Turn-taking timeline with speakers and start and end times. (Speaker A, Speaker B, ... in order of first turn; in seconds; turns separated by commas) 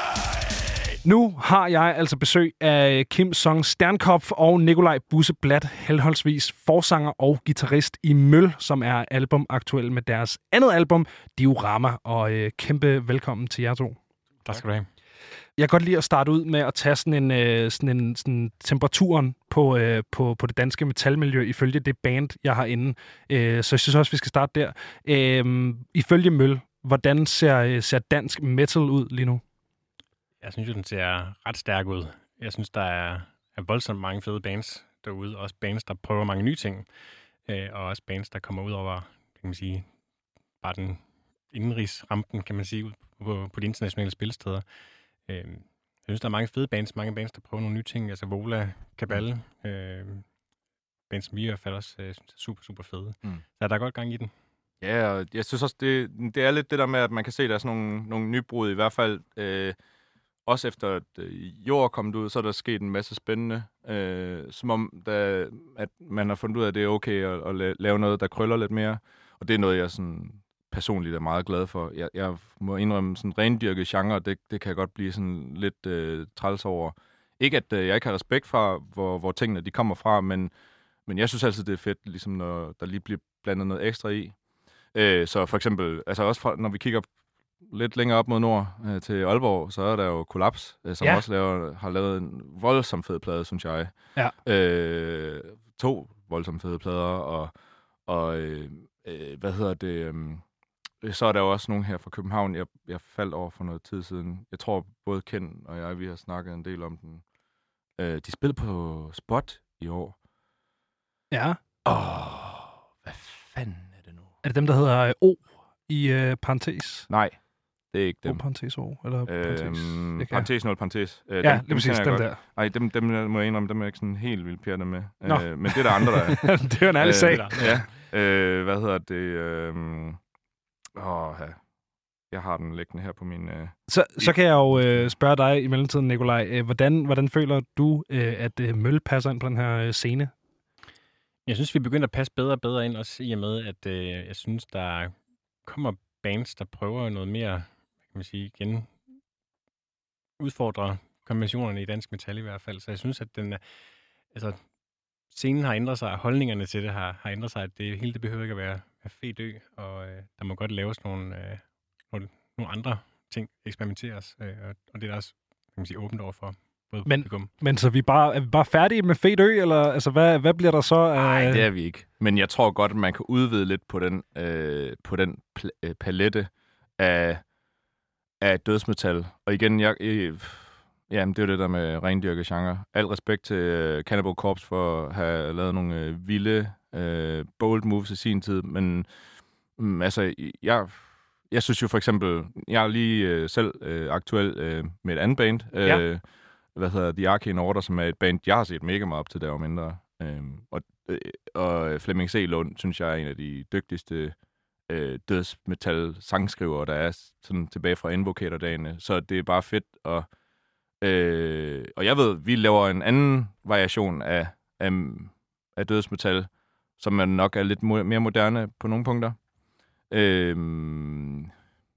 Speaker A: 1.0-14.0, Speaker B: 14.4-14.9, Speaker A: 15.6-29.4, Speaker B: 30.4-36.9, Speaker B: 37.5-39.9, Speaker B: 40.6-44.6, Speaker B: 45.3-50.3, Speaker B: 51.1-54.3, Speaker C: 54.8-59.8, Speaker C: 60.5-80.5, Speaker C: 81.1-84.4, Speaker C: 84.9-87.1, Speaker C: 87.6-93.9, Speaker C: 94.4-97.5, Speaker C: 98.1-100.4, Speaker C: 101.0-107.2, Speaker C: 108.0-110.2, Speaker A: 111.3-111.6, Speaker C: 111.8-114.3, Speaker A: 114.4-117.1, Speaker C: 117.1-117.4, Speaker C: 117.9-118.5, Speaker A: 118.3-120.5, Speaker C: 119.2-130.2, Speaker A: 121.4-122.4, Speaker A: 125.3-127.8, Speaker B: 127.2-127.9, Speaker C: 130.9-131.6, Speaker C: 132.3-135.1, Speaker A: 133.9-140.3, Speaker B: 141.5-149.0, Speaker B: 150.4-153.6, Speaker B: 154.3-154.6, Speaker B: 155.3-167.5, Speaker A: 167.1-171.7, Speaker C: 171.2-177.4, Speaker C: 178.4-189.1, Speaker C: 189.8-196.2, Speaker C: 196.8-204.4, Speaker C: 204.9-210.3, Speaker C: 211.0-219.4, Speaker C: 220.1-221.5